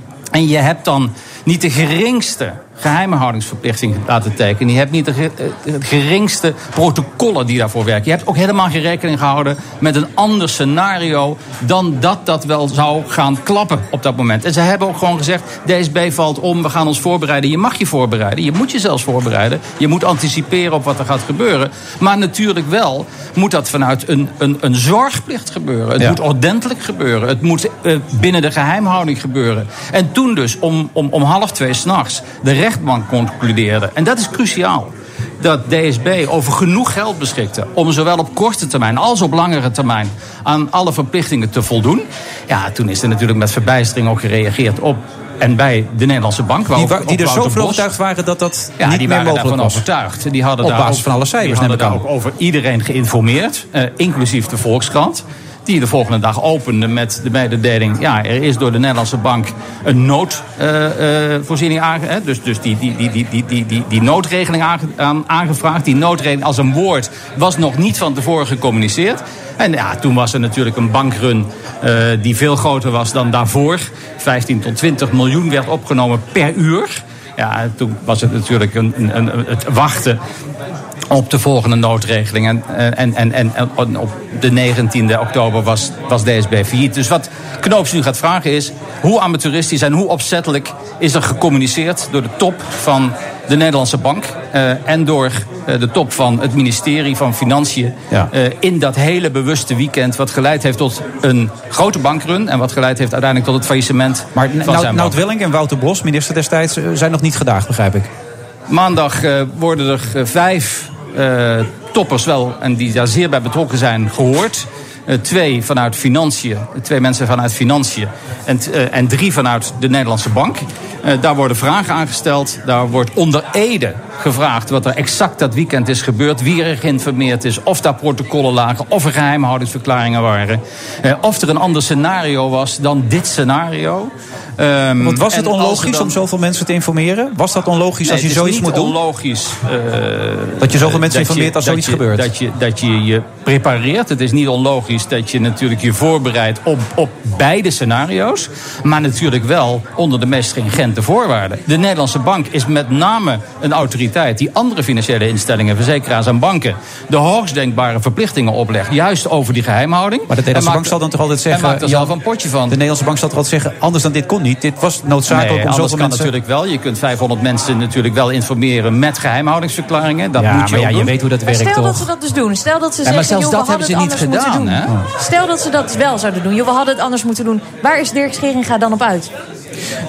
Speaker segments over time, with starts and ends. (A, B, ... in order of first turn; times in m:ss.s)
0:00.3-0:47.8 A
0:46.7-0:49.8 B
0:48.8-1:20.2 A
0:50.6-0:52.0 B
1:21.1-1:45.2 A
1:44.3-1:48.1 B
1:48.7-2:16.2 A
2:15.0-2:19.0 B
2:18.0-2:41.0 A
2:20.6-2:22.3 B
2:40.3-2:42.2 B
2:41.5-2:42.8 A
2:42.7-2:46.3 B
2:45.3-2:51.1 A
2:50.4-2:52.1 B
2:51.4-2:59.3 C
2:53.0-2:54.9 A